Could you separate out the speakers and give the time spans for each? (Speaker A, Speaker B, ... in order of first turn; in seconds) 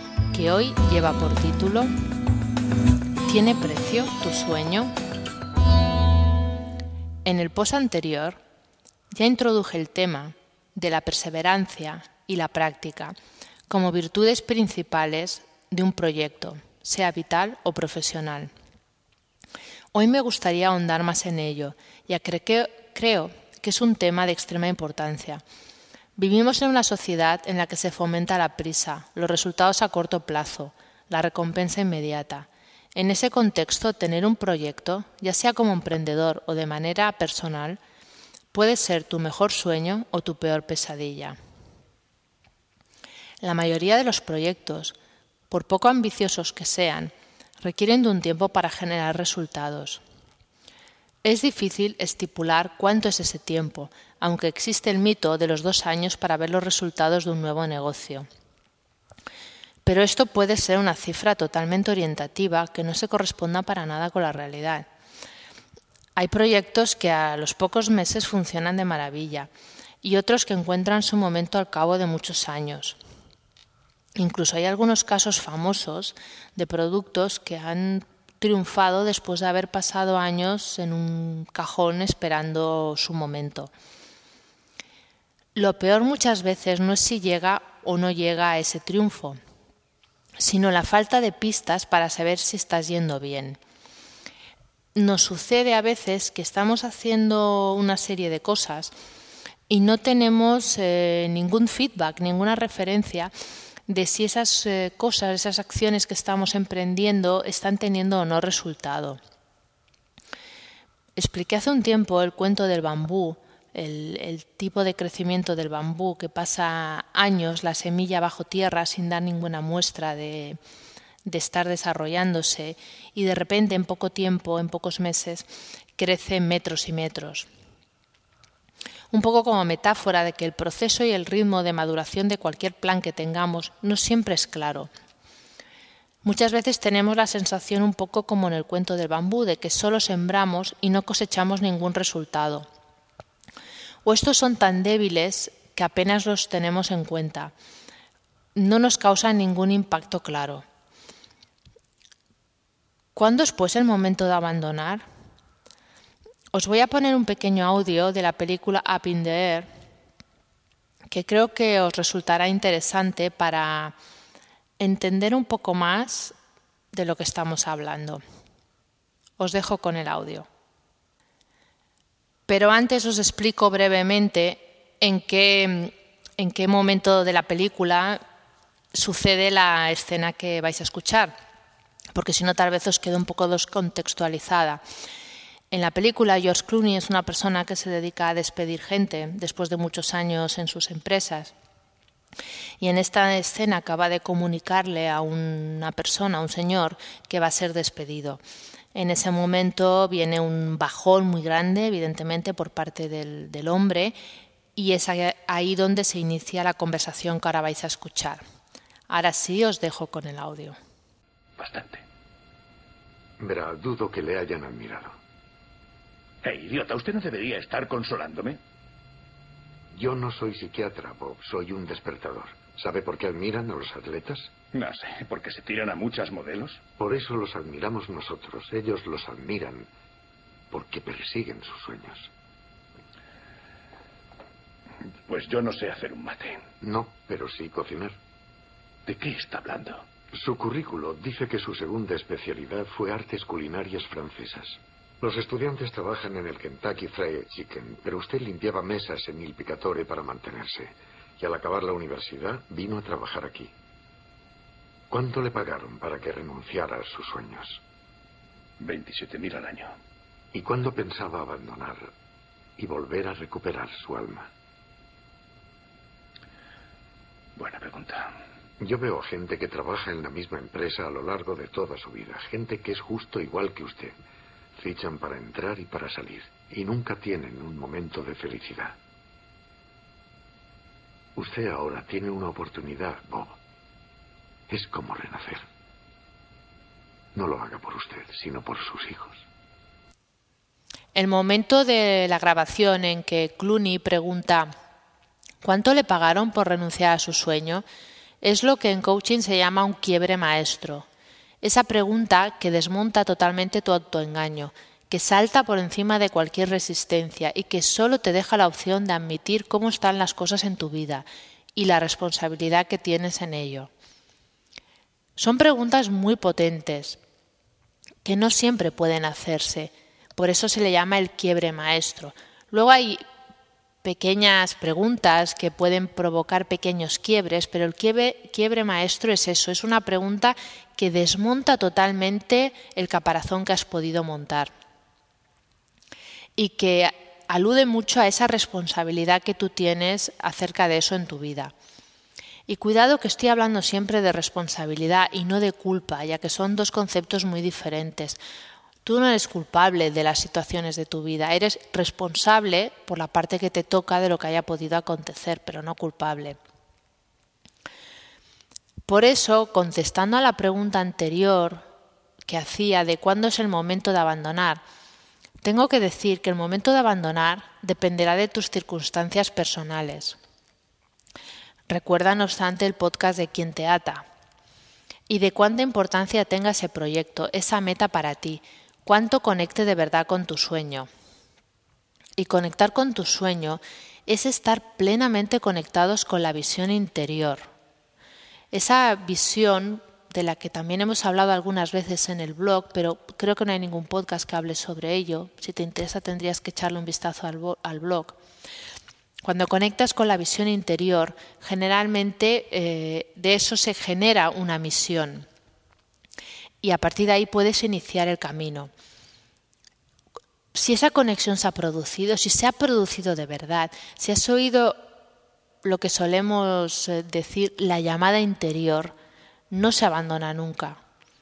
Speaker A: 0.3-1.9, 3.2-4.9, 7.2-8.4, 9.1-13.1, 13.7-18.5, 19.9-25.4, 26.2-37.8, 38.5-41.4, 43.4-45.0, 45.5-50.0, 51.2-58.3, 59.8-64.8, 66.2-69.5, 70.0-73.0, 74.2-83.7, 85.5-89.4, 90.4-93.6, 94.9-98.9, 99.7-103.3, 103.9-109.2, 111.2-120.6, 121.2-127.5, 129.1-134.9, 136.2-142.7, 144.0-147.5, 148.6-150.6, 153.1-155.0, 156.5-159.7, 161.1-163.9, 164.8-166.3, 166.9-168.2, 169.4-170.5, 172.5-178.2, 178.9-181.3, 182.1-184.8, 185.7-191.5, 192.8-198.4, 198.9-204.1, 204.7-208.4, 209.1-210.8, 291.1-294.7, 295.6-297.8, 298.4-301.1, 301.6-313.9, 315.4-317.2, 318.2-323.2, 324.0-334.7, 336.6-341.7, 342.7-348.4, 349.0-356.6, 359.1-361.8, 362.4-364.8, 365.6-370.4, 371.9-374.2, 375.3-381.1, 382.4-387.7, 388.7-398.4, 399.4-405.5, 406.8-408.9, 410.7-415.0, 415.8-419.1, 419.7-421.0
Speaker B: 211.6-212.0, 216.4-218.6, 224.7-226.8, 235.3-236.7, 239.1-240.0, 258.8-259.9, 267.6-268.4
Speaker C: 213.4-215.2, 219.9-224.5, 227.0-229.9, 230.7-232.3, 236.8-238.2, 240.3-253.7, 255.1-257.8, 260.5-262.1, 262.8-264.5, 268.8-274.1, 274.8-279.0, 281.4-283.6, 284.7-285.6, 287.3-289.4